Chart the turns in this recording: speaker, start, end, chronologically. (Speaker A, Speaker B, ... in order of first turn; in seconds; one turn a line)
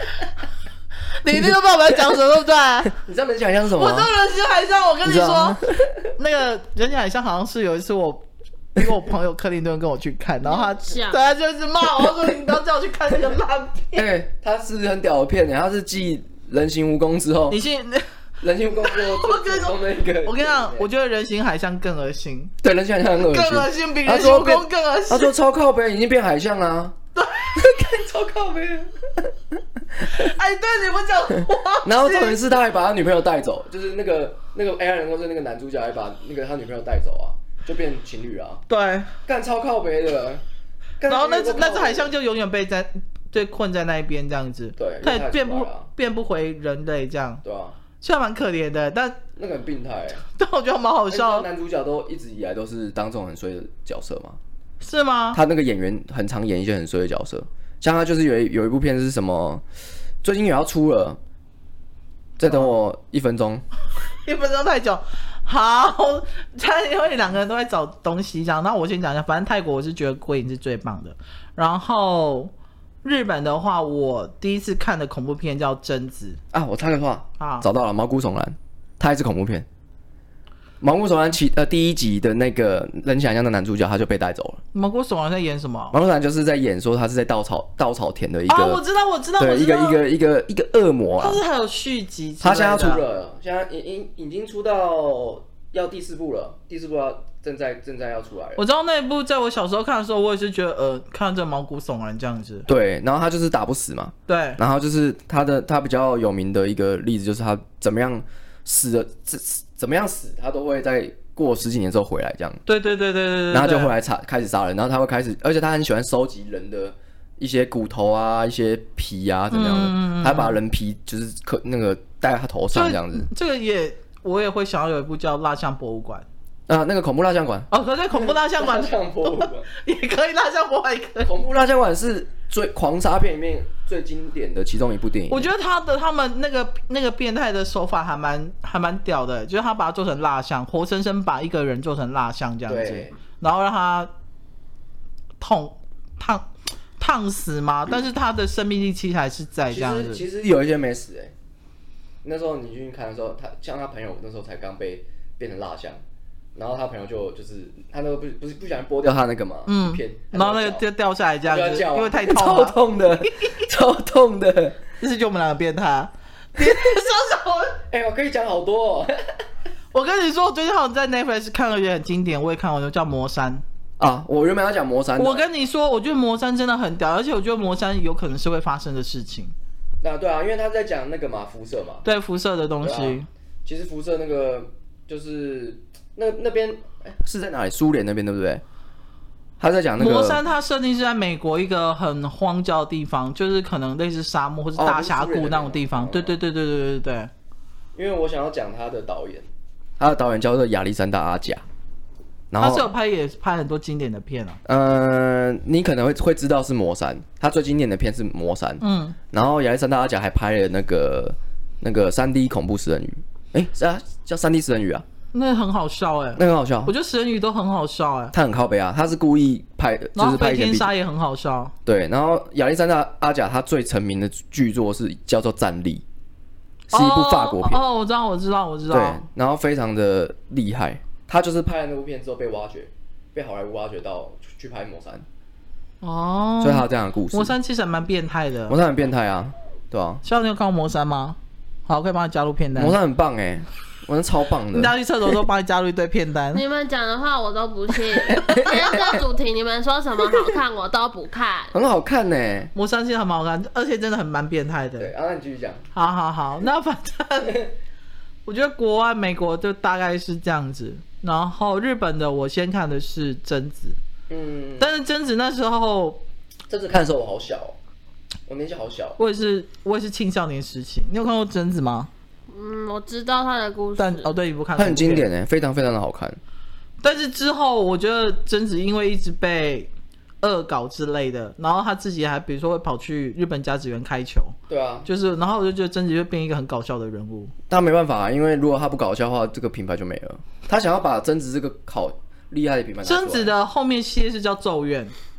Speaker A: 1.2-2.9
Speaker B: 3.0-4.1
Speaker A: 3.8-5.6
Speaker B: 5.0-6.1
Speaker A: 6.2-14.1
Speaker C: 10.4-11.3
Speaker B: 13.9-17.6
Speaker A: 17.5-18.1
Speaker B: 18.4-20.9
Speaker A: 18.8-22.5
Speaker B: 22.6-27.0
Speaker A: 23.2-25.3
Speaker A: 27.2-27.6
Speaker B: 27.5-29.3
Speaker A: 30.0-32.4
Speaker B: 31.8-38.6
Speaker A: 38.7-39.1
Speaker B: 39.2-40.4
Speaker B: 41.0-42.1
Speaker A: 41.1-47.4
Speaker B: 44.8-45.9
Speaker B: 47.4-47.8
Speaker A: 48.0-49.2
Speaker B: 49.4-50.2
Speaker A: 50.2-51.5
Speaker B: 51.1-54.4
Speaker A: 54.8-55.4
Speaker B: 55.3-59.6
Speaker B: 60.2-61.2
Speaker B: 62.4-63.6
Speaker A: 64.2-72.5
Speaker A: 73.0-76.4
Speaker B: 76.5-79.7
Speaker A: 77.4-77.7
Speaker B: 80.8-84.6
Speaker A: 84.7-86.0
Speaker B: 85.9-88.8
Speaker A: 88.5-90.0
Speaker B: 89.4-91.4
Speaker A: 91.2-93.0
Speaker B: 92.4-98.6
Speaker A: 98.6-102.7
Speaker B: 102.7-112.6
Speaker A: 104.3-104.6
Speaker A: 112.7-113.9
Speaker B: 113.5-123.3
Speaker A: 119.5-120.6
Speaker A: 122.7-126.2
Speaker B: 126.7-129.7
Speaker A: 127.7-131.3
Speaker B: 131.2-135.5
Speaker A: 135.3-144.1
Speaker B: 142.7-143.1
Speaker A: 145.4-150.2
Speaker B: 149.7-151.3
Speaker B: 152.2-156.0
Speaker B: 156.6-160.8
Speaker A: 159.7-163.6
Speaker B: 161.4-164.8
Speaker A: 165.0-167.8
Speaker B: 167.9-169.2
Speaker A: 169.9-173.6
Speaker B: 174.0-175.5
Speaker A: 175.2-179.5
Speaker B: 180.0-182.1
Speaker A: 182.0-183.3
Speaker B: 182.8-188.6
Speaker B: 189.6-190.4
Speaker A: 190.0-197.3
Speaker B: 194.8-196.3
Speaker B: 197.9-199.5
Speaker B: 200.0-201.6
Speaker B: 202.5-202.9
Speaker A: 202.6-204.6
Speaker B: 204.6-215.1
Speaker A: 208.8-209.2
Speaker A: 215.3-218.3
Speaker B: 216.4-216.9
Speaker B: 218.3-220.9
Speaker A: 220.1-221.7
Speaker B: 221.9-226.0
Speaker B: 226.9-227.8
Speaker A: 226.9-229.2
Speaker B: 228.9-235.2
Speaker A: 236.0-238.8
Speaker B: 236.6-237.6
Speaker B: 238.7-240.2
Speaker A: 240.2-243.0
Speaker B: 242.8-244.9
Speaker A: 244.7-246.6
Speaker C: 246.5-251.7
Speaker B: 248.2-249.2
Speaker B: 251.7-252.7
Speaker A: 252.8-255.1
Speaker B: 255.0-255.8
Speaker A: 255.9-257.7
Speaker A: 258.5-264.0
Speaker B: 264.3-264.9
Speaker A: 264.8-266.2
Speaker B: 266.7-267.8
Speaker B: 268.5-269.2
Speaker A: 269.2-272.1
Speaker C: 272.5-274.3
Speaker A: 274.0-275.3
Speaker B: 274.8-276.4
Speaker A: 277.0-279.9
Speaker A: 280.4-287.5
Speaker B: 284.7-285.1
Speaker B: 287.7-293.5
Speaker A: 293.0-295.1